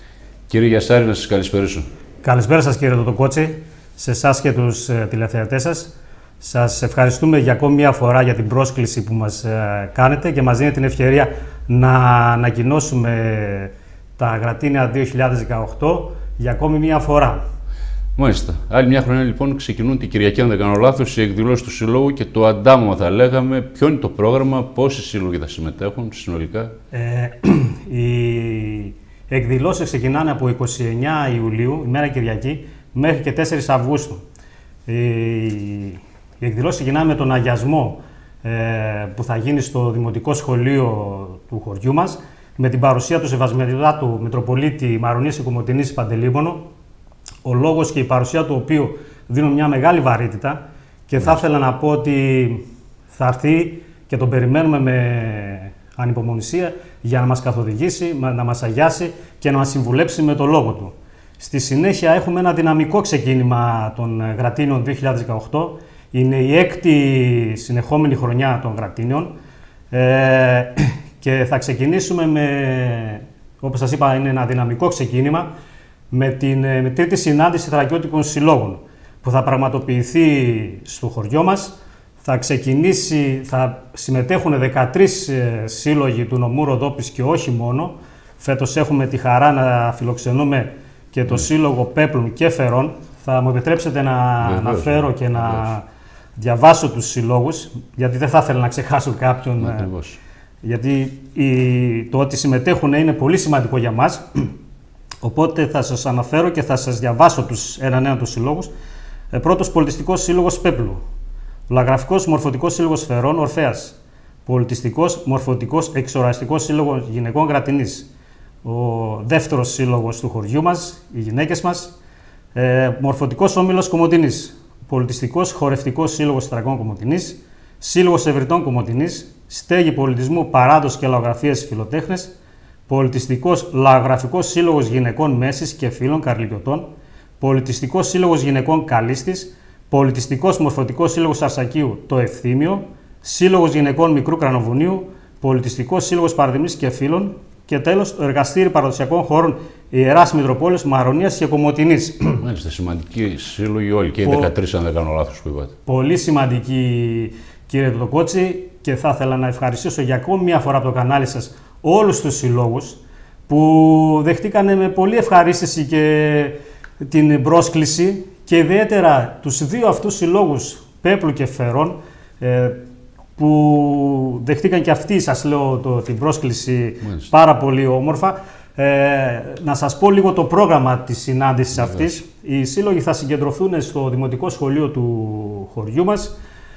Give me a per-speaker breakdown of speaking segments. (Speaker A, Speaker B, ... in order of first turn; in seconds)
Speaker A: 0.5-1.9, 18.2-26.7, 94.4-95.7, 99.6-100.2, 152.4-155.7, 181.8-182.1
Speaker B: 2.2-17.4, 26.9-34.2, 34.9-46.6, 47.4-69.3, 69.9-75.5, 76.1-95.8, 96.4-99.9, 100.6-104.5, 105.2-108.7, 109.3-111.0, 111.7-118.1, 118.6-122.0, 122.5-132.3, 132.9-136.9, 137.4-152.4, 154.2-154.5, 155.8-172.8, 173.4-186.4